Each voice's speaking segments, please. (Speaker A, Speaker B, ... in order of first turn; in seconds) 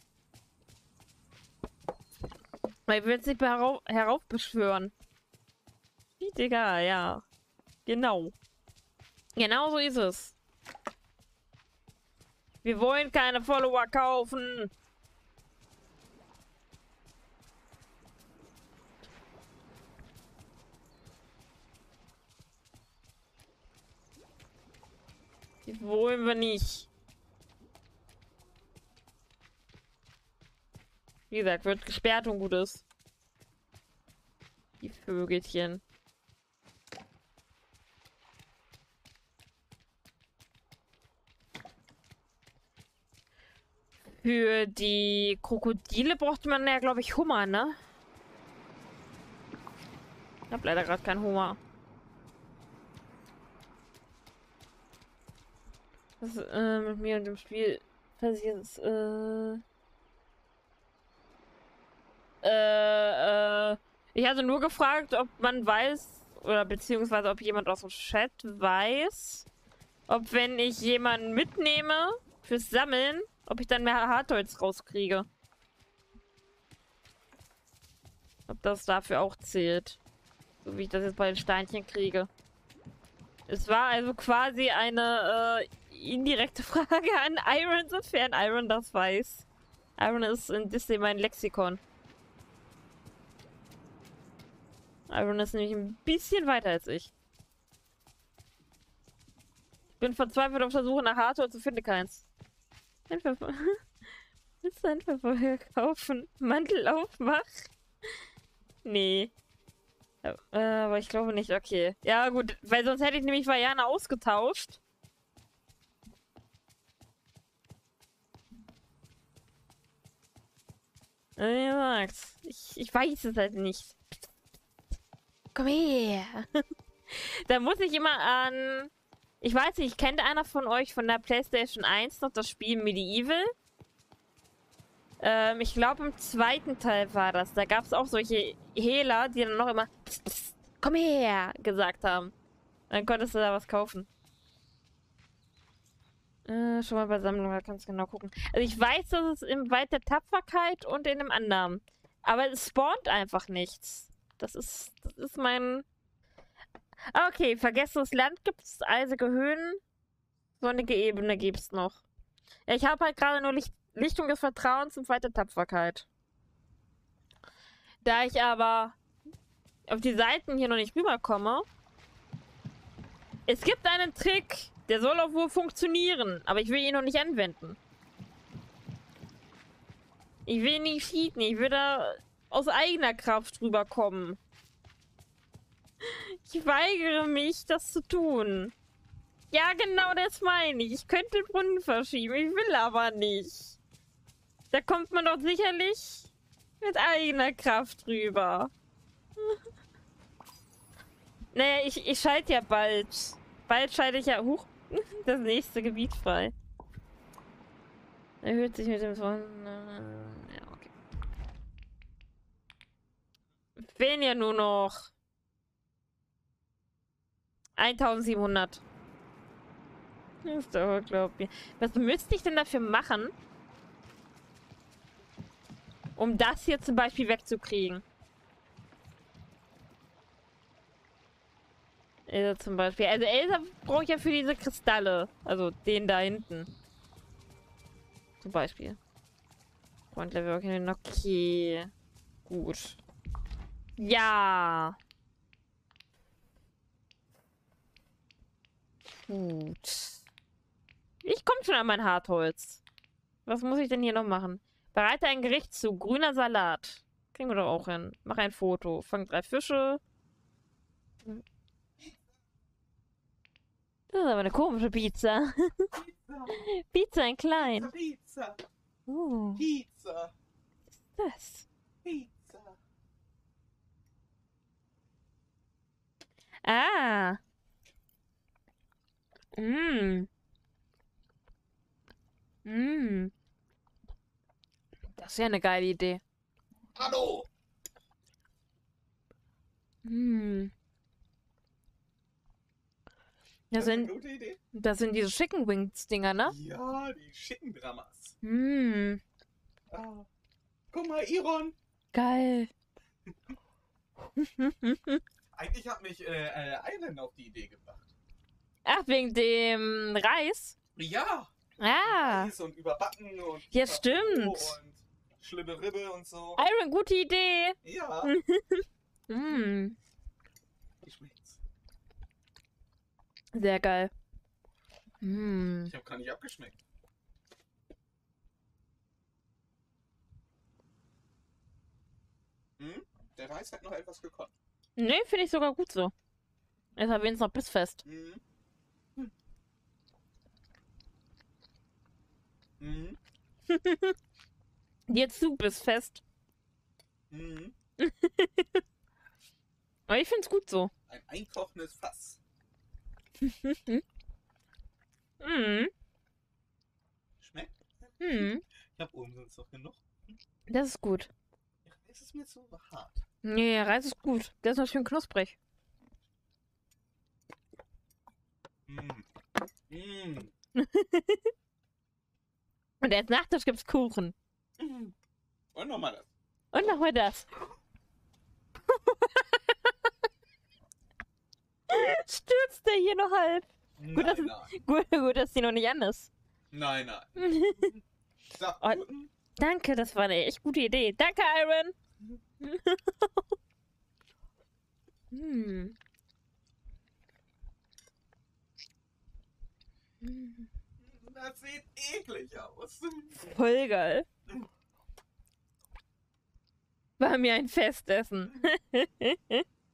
Speaker A: 2.9-4.9, 6.2-7.2, 7.8-8.3, 9.3-10.3, 12.6-14.7, 25.6-26.9, 31.3-32.8, 34.8-35.8, 44.2-47.8, 50.5-51.6, 56.2-59.6, 62.4-69.5, 70.1-75.3, 78.5-80.0, 80.6-82.3, 83.5-89.5, 90.0-91.8, 95.1-97.1, 100.0-102.2, 103.1-103.8, 104.6-107.7, 108.8-109.3, 110.2-114.8, 121.4-124.0, 125.5-126.5, 127.1-133.5, 135.2-142.3, 142.9-144.1, 146.4-155.8, 157.1-159.8, 160.6-162.0, 162.7-166.1, 168.0-169.0, 169.9-171.7, 173.5-177.8, 180.4-184.4, 186.0-188.7, 189.5-193.8, 194.7-198.7, 201.5-206.5, 208.4-210.9, 213.8-215.1, 217.8-218.8, 220.4-223.3, 226.2-228.0, 232.3-236.7, 238.4-239.0, 240.1-241.9, 242.5-243.0, 244.0-245.0, 249.3-250.2, 251.2-252.8, 253.4-260.0, 264.1-265.9, 266.5-267.9, 269.1-269.6, 271.0-271.7, 276.6-277.4, 279.6-280.3, 282.6-283.3, 285.1-286.2, 290.0-290.7, 293.7-294.1, 294.7-296.5, 298.4-299.2, 302.1-302.7, 304.4-305.2, 308.8-310.8, 311.8-312.5, 313.7-314.8, 316.6-319.9, 323.5-324.1, 325.2-325.9, 335.0-336.1, 336.9-338.0, 343.7-344.1, 345.1-346.2, 348.0-348.8, 350.1-350.9, 353.4-354.0, 355.4-355.9, 358.2-358.6, 360.7-361.3, 363.4-365.6, 370.8-371.5, 373.0-374.3, 376.7-377.5, 378.9-379.9, 381.9-386.3, 387.4-387.9, 389.6-391.9, 392.6-393.4, 395.3-395.9, 400.2-400.6, 403.4-404.2, 407.2-409.6
Speaker B: 265.9-266.6, 267.5-268.6, 269.6-270.3, 272.0-272.8, 286.9-287.5, 293.7-294.6, 296.4-298.4, 299.9-300.3, 300.9-301.8, 305.5-308.1, 310.9-316.6, 317.8-318.3, 321.0-321.6, 325.9-326.8, 332.8-334.5, 338.0-338.4, 342.8-343.2, 347.3-347.7, 351.1-352.4, 357.4-360.0, 361.8-363.2, 368.9-369.3, 369.9-370.5, 374.8-375.1, 375.7-376.3, 384.0-384.7, 386.7-388.0, 388.5-389.3, 401.0-403.5